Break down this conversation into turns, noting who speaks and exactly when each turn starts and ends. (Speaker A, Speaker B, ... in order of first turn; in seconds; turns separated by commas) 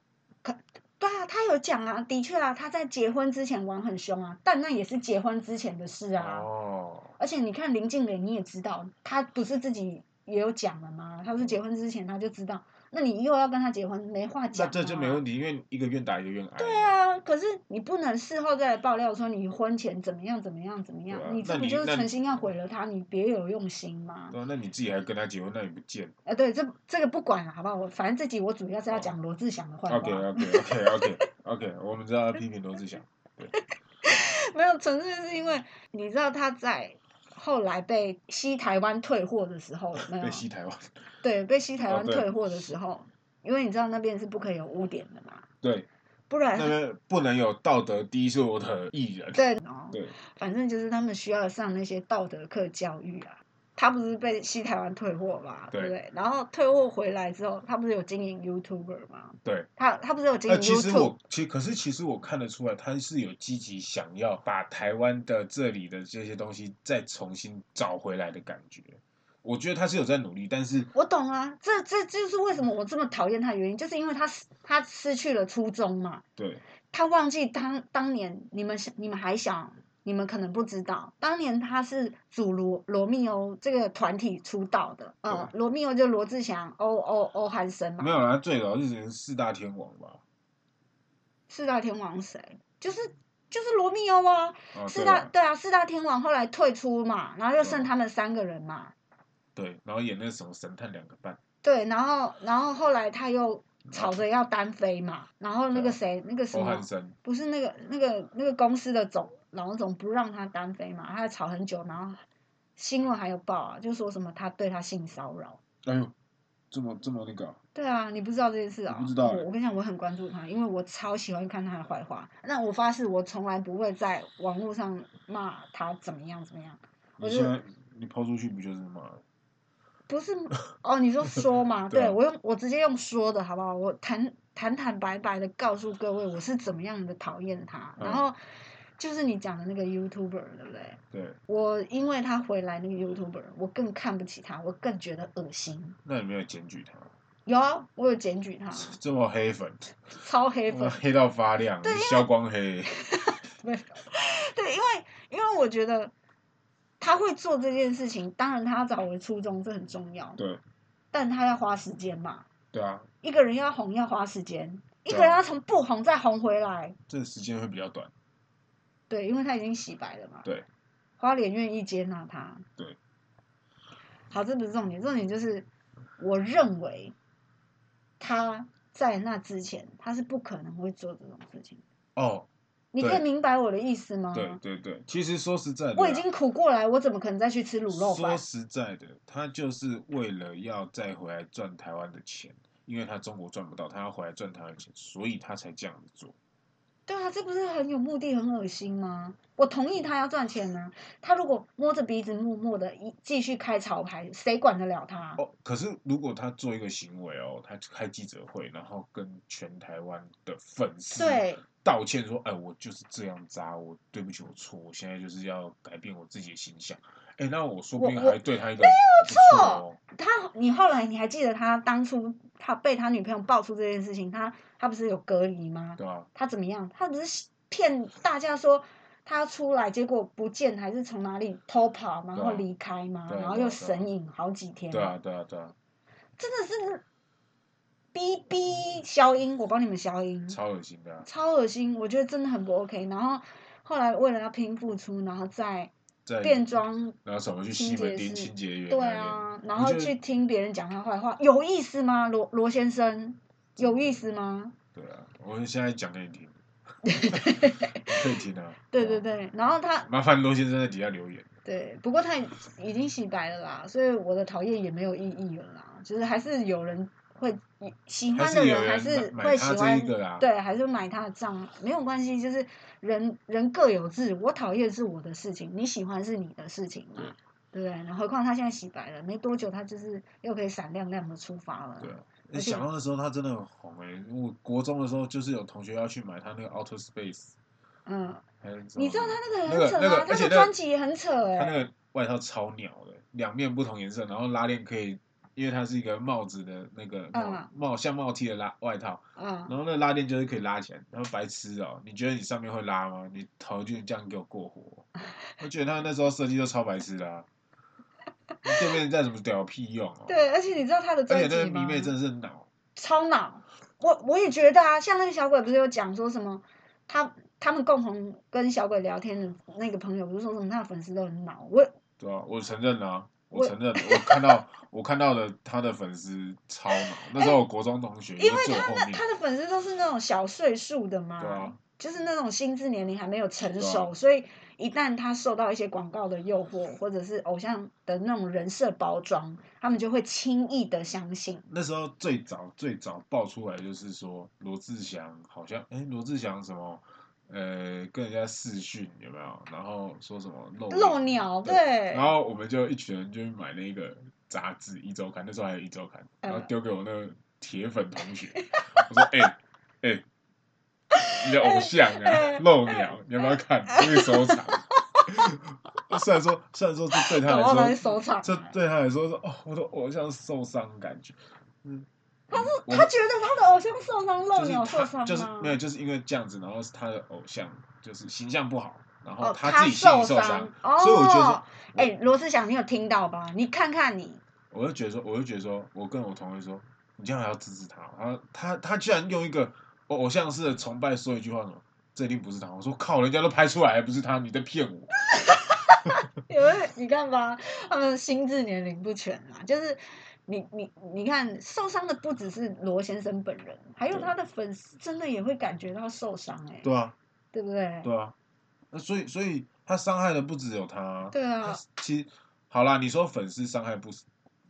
Speaker A: 0.4-6.5, Speaker B: 6.2-7.1, Speaker A: 7.2-15.2, Speaker B: 14.5-16.9, Speaker A: 16.6-24.4, Speaker B: 21.1-22.1, Speaker B: 24.3-26.1, Speaker A: 26.3-31.2, Speaker B: 29.9-33.5, Speaker A: 34.0-40.5, Speaker B: 40.1-41.0, Speaker A: 41.2-45.5, Speaker B: 41.9-42.7, Speaker B: 45.6-45.9, Speaker A: 46.3-46.8, Speaker B: 46.5-50.1, Speaker A: 49.3-61.1, Speaker B: 60.5-70.9, Speaker A: 70.9-76.2, Speaker B: 76.4-76.6, Speaker A: 76.9-88.2, Speaker B: 88.0-90.2, Speaker A: 91.5-98.9, Speaker B: 94.7-95.3, Speaker B: 97.6-97.9, Speaker B: 99.5-101.4, Speaker A: 101.6-112.2, Speaker B: 103.9-104.2, Speaker B: 105.7-106.0, Speaker B: 106.5-107.2, Speaker A: 112.8-115.6, Speaker B: 115.8-116.1, Speaker B: 116.7-117.6, Speaker A: 117.8-127.5, Speaker B: 118.9-119.5, Speaker B: 127.2-129.2, Speaker A: 130.1-138.4, Speaker B: 131.9-132.2, Speaker B: 138.0-138.3, Speaker A: 139.0-146.0, Speaker B: 141.1-141.4, Speaker B: 146.1-147.1, Speaker A: 147.5-149.0, Speaker B: 148.8-150.0, Speaker A: 150.1-151.0, Speaker B: 150.7-152.9, Speaker A: 151.8-152.3, Speaker A: 152.9-156.1, Speaker A: 157.0-160.4, Speaker A: 161.1-162.4, Speaker B: 162.7-163.1, Speaker A: 163.2-167.0, Speaker B: 165.1-165.4, Speaker B: 167.1-168.1, Speaker A: 169.1-170.5, Speaker A: 171.2-172.7, Speaker A: 174.3-175.7, Speaker A: 176.2-177.2, Speaker A: 178.2-181.8, Speaker B: 182.2-182.5, Speaker A: 182.9-184.6, Speaker B: 183.0-183.2, Speaker B: 184.3-186.2, Speaker A: 185.9-188.4, Speaker B: 187.9-196.3, Speaker A: 197.1-205.4, Speaker B: 205.4-220.0, Speaker A: 211.1-211.6, Speaker A: 218.0-235.2, Speaker B: 226.0-226.3, Speaker B: 232.3-232.7, Speaker B: 233.3-234.1, Speaker B: 234.9-235.8, Speaker A: 236.4-237.0, Speaker A: 238.1-240.6, Speaker B: 240.5-241.3, Speaker A: 241.2-247.2, Speaker B: 246.3-246.7, Speaker B: 247.2-250.2, Speaker A: 247.7-254.8, Speaker B: 253.8-254.2, Speaker B: 254.9-256.6, Speaker A: 257.0-258.2, Speaker B: 257.3-259.2, Speaker A: 258.9-260.1, Speaker B: 260.1-261.5, Speaker A: 261.6-282.9, Speaker B: 268.3-270.5, Speaker B: 282.0-287.6, Speaker A: 288.1-288.4, Speaker B: 288.6-290.7, Speaker A: 289.0-291.8, Speaker B: 291.6-305.1, Speaker A: 297.3-297.7, Speaker A: 299.4-299.7, Speaker B: 305.6-307.5, Speaker B: 308.6-310.4, Speaker A: 310.3-312.1, Speaker B: 311.3-312.7, Speaker A: 313.0-321.9, Speaker B: 322.2-329.2, Speaker A: 323.5-324.6, Speaker A: 326.9-327.6, Speaker A: 328.4-341.6, Speaker B: 331.4-331.8, Speaker B: 333.8-334.1, Speaker B: 341.7-360.2, Speaker A: 350.9-352.3, Speaker A: 356.4-356.7, Speaker A: 358.6-359.1, Speaker A: 361.1-363.1, Speaker B: 361.3-373.1, Speaker A: 363.9-365.3, Speaker A: 367.2-368.7, Speaker A: 372.5-375.8, Speaker B: 374.5-382.1, Speaker A: 379.4-384.4, Speaker B: 384.7-395.1, Speaker A: 395.3-406.9, Speaker B: 406.8-407.1, Speaker A: 407.5-408.1, Speaker B: 408.0-408.3, Speaker B: 408.9-414.2, Speaker A: 411.3-411.8